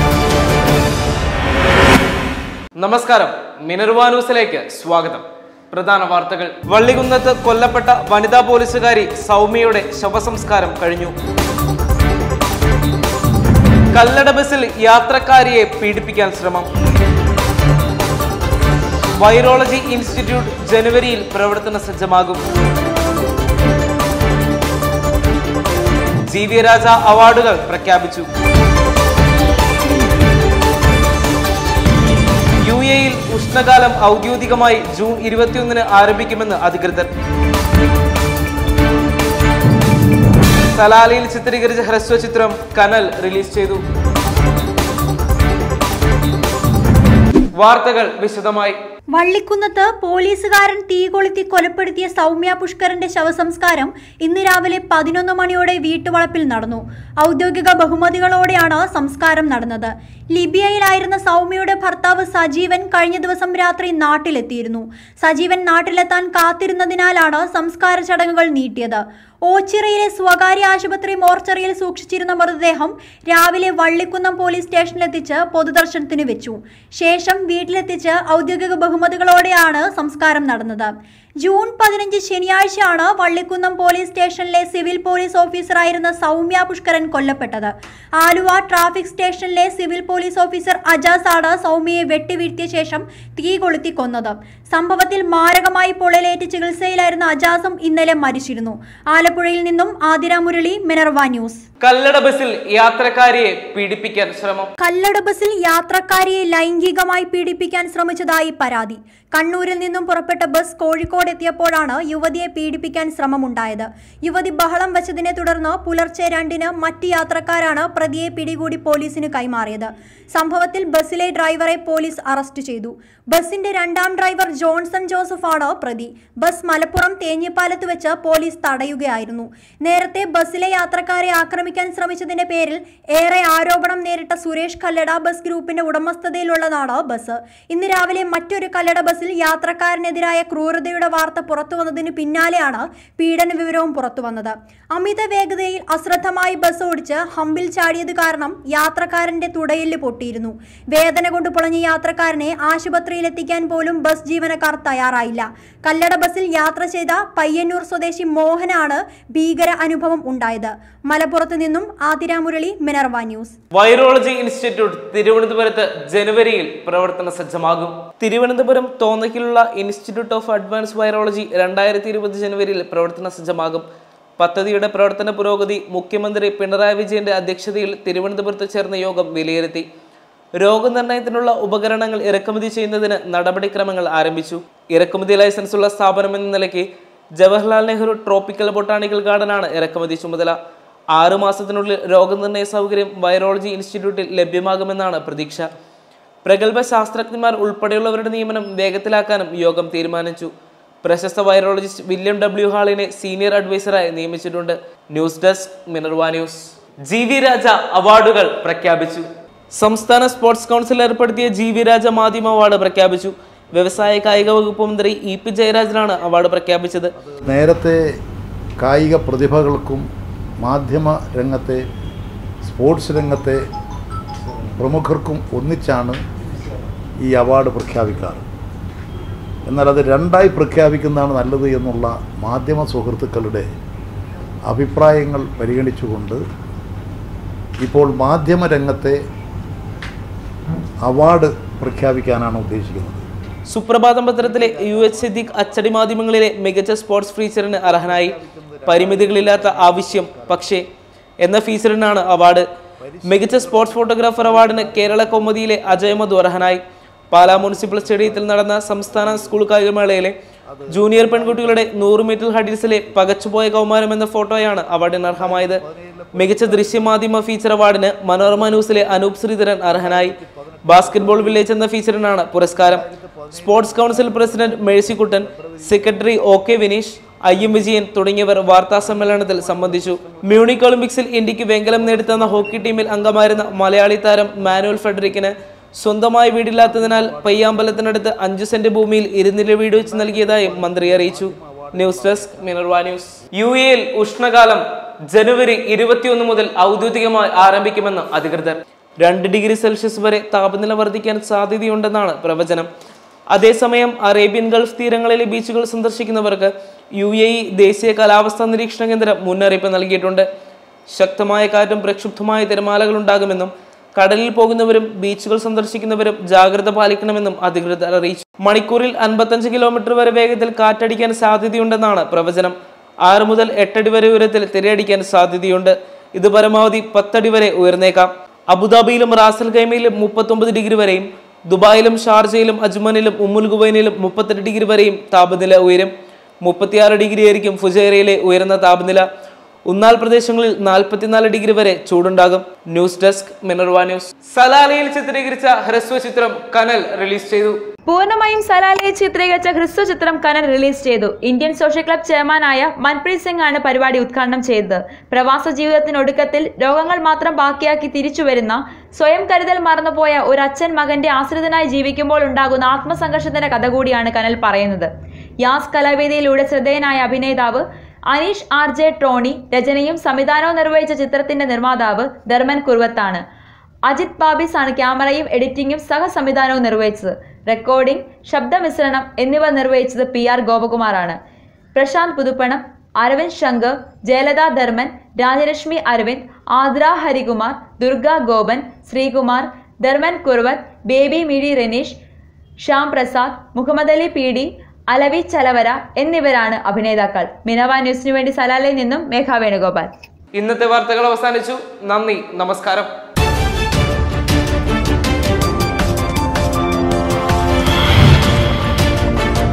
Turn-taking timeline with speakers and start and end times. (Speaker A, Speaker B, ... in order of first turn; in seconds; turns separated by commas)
Speaker A: 2.8-11.1, Speaker A: 13.9-16.7, Speaker A: 19.2-22.4, Speaker A: 26.3-28.3, Speaker A: 32.6-37.1, Speaker A: 40.7-43.8, Speaker A: 47.5-48.8, Speaker B: 49.1-101.6, Speaker A: 101.8-104.7, Speaker B: 104.8-163.6, Speaker A: 163.7-173.9, Speaker A: 174.4-179.9, Speaker A: 180.6-190.6, Speaker A: 191.1-195.7, Speaker A: 196.4-200.5, Speaker A: 201.0-217.1, Speaker C: 217.2-218.0, Speaker C: 218.8-220.1, Speaker C: 220.6-221.8, Speaker C: 222.6-223.6, Speaker C: 224.7-226.2, Speaker C: 227.2-228.4, Speaker C: 229.7-233.7, Speaker C: 234.7-236.4, Speaker C: 237.8-239.2, Speaker C: 241.0-243.2, Speaker A: 243.7-248.3, Speaker C: 244.4-246.0, Speaker C: 247.8-250.7, Speaker A: 248.9-250.8, Speaker A: 251.4-252.7, Speaker C: 253.0-256.6, Speaker A: 253.2-260.3, Speaker C: 257.4-259.7, Speaker C: 260.7-263.2, Speaker A: 260.9-265.8, Speaker C: 265.2-267.2, Speaker A: 266.3-270.4, Speaker C: 268.4-271.7, Speaker A: 270.9-302.9, Speaker C: 272.8-276.4, Speaker C: 277.5-277.9, Speaker C: 278.7-280.9, Speaker C: 281.9-284.0, Speaker C: 284.5-285.3, Speaker C: 286.8-288.3, Speaker C: 289.9-292.8, Speaker A: 303.5-310.4, Speaker A: 311.1-339.2, Speaker A: 339.9-347.8, Speaker D: 348.1-365.1, Speaker D: 365.6-373.4, Speaker D: 374.1-381.4, Speaker D: 381.9-392.2, Speaker D: 392.8-400.1, Speaker A: 400.5-403.1